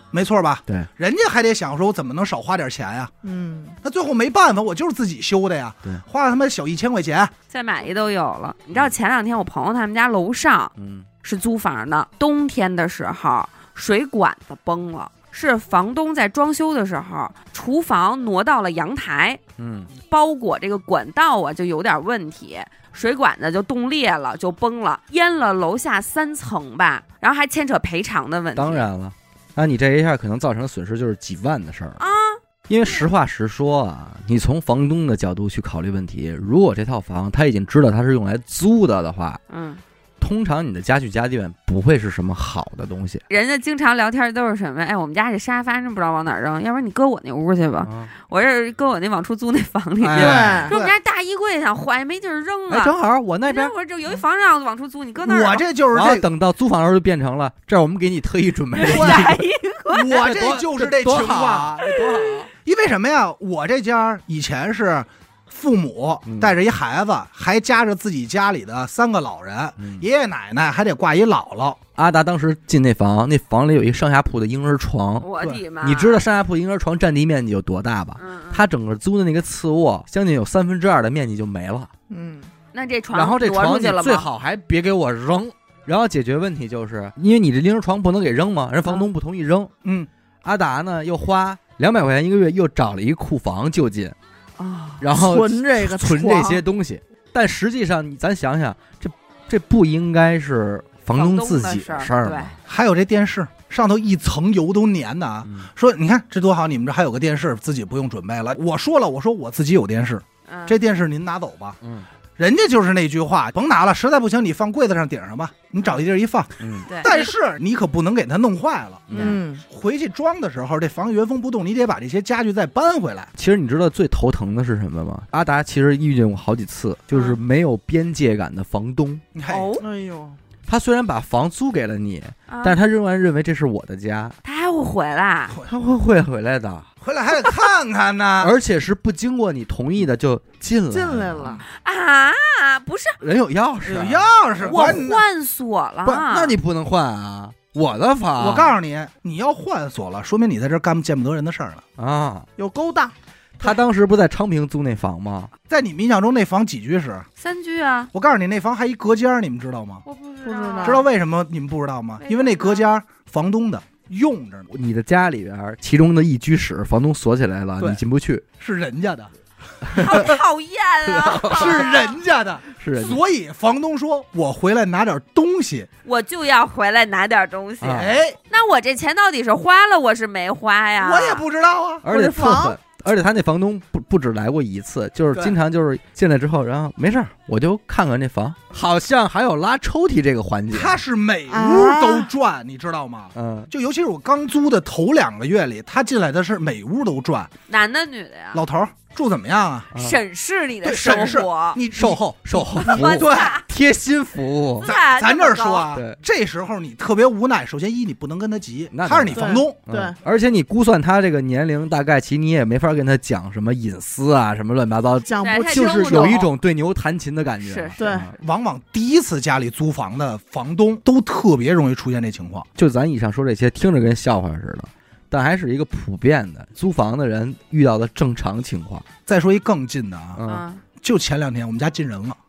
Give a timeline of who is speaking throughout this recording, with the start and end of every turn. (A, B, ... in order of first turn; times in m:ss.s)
0:00.1-0:03.1 A
0:03.2-0:03.8 B
0:03.8-0:07.3 A
0:07.5-0:19.4 C
0:10.8-0:11.1 D
0:19.6-0:19.9 D
0:20.1-0:28.9 C
0:28.6-0:32.0 D
0:32.0-0:32.4 C
0:32.7-0:39.4 D
0:39.5-0:39.8 C
0:40.2-0:43.2 D
0:43.3-0:53.0 C
0:47.8-0:48.1 D
0:50.0-0:50.7 D
0:50.1-0:50.8 B
0:50.2-0:50.9 A
0:52.7-0:53.7 D
0:53.5-0:55.6 C
0:55.2-0:56.3 A
0:56.0-0:59.3 D
0:58.8-1:00.2 C
0:58.9-1:01.9 A
1:00.1-1:02.5 D
1:02.0-1:02.3 C
1:02.6-1:11.8 A
1:06.2-1:06.6 D
1:09.8-1:10.0 D
1:12.0-1:15.3 D
1:15.2-1:16.2 C
1:15.8-1:21.9 D
1:18.2-1:18.6 C
1:22.1-1:22.5 B
1:22.7-1:24.3 C
1:23.1-1:29.7 D
1:29.8-1:30.1 A
1:30.4-1:34.2 D
1:34.6-1:35.0 C
1:35.0-1:42.5 D
1:35.1-1:36.6 B
1:41.1-1:42.5 C
1:42.6-1:51.8 A
1:45.4-1:45.7 D
1:50.5-1:50.8 C
1:51.8-1:52.1 D
1:52.4-1:59.1 A
1:56.6-1:56.9 D
1:56.9-1:57.3 C
1:59.1-1:59.4 D
1:59.1-1:59.6 B
1:59.1-1:59.4 C
1:59.6-2:03.3 A
2:03.4-2:09.2 D
2:07.1-2:07.4 C
2:09.3-2:09.8 A
2:09.5-2:09.8 C
2:09.8-2:10.4 B
2:10.7-2:14.4 D
2:12.5-2:12.8 C
2:14.4-2:15.5 C
2:15.6-2:16.9 D
2:17.0-2:18.5 A
2:18.4-2:21.6 D
2:20.9-2:21.6 B
2:21.7-2:23.2 C
2:23.2-2:25.0 D
2:23.8-2:25.3 A
2:24.6-2:26.6 C
2:26.0-2:28.7 D
2:28.4-2:31.8 A
2:32.0-2:32.5 D
2:32.6-2:33.1 B
2:33.6-2:35.5 D
2:35.7-2:37.3 A
2:37.4-2:38.1 C
2:38.1-2:40.0 A
2:40.1-2:41.0 C
2:40.4-2:41.0 B
2:40.8-2:44.7 A
2:42.2-2:42.9 C
2:44.7-2:48.4 D
2:48.6-2:49.3 A
2:49.8-2:50.2 D
2:50.0-2:52.2 C
2:50.0-2:50.3 A
2:51.0-2:51.9 D
2:51.5-2:55.9 A
2:52.8-2:53.2 D
2:56.0-3:01.5 C
2:57.8-2:58.2 D
2:57.9-2:58.4 A
3:01.0-3:02.0 A
3:02.0-3:11.0 D
3:02.1-3:02.8 B
3:10.7-3:17.5 A
3:11.5-3:12.3 B
3:13.4-3:13.7 D
3:17.7-3:18.6 C
3:18.5-3:19.9 A
3:20.0-3:21.8 C
3:20.8-3:23.6 A
3:21.9-3:24.9 D
3:22.8-3:23.6 C
3:24.8-3:25.9 C
3:24.8-3:29.8 A
3:25.9-3:26.2 D
3:28.9-3:38.4 D
3:29.3-3:30.2 B
3:35.2-3:36.4 B
3:35.4-3:36.5 C
3:37.6-3:38.0 C
3:38.0-3:38.3 B
3:38.4-3:42.7 A
3:42.8-3:49.1 D
3:49.3-3:50.4 A
3:50.4-3:50.6 D
3:50.5-3:50.8 C
3:51.0-3:52.4 A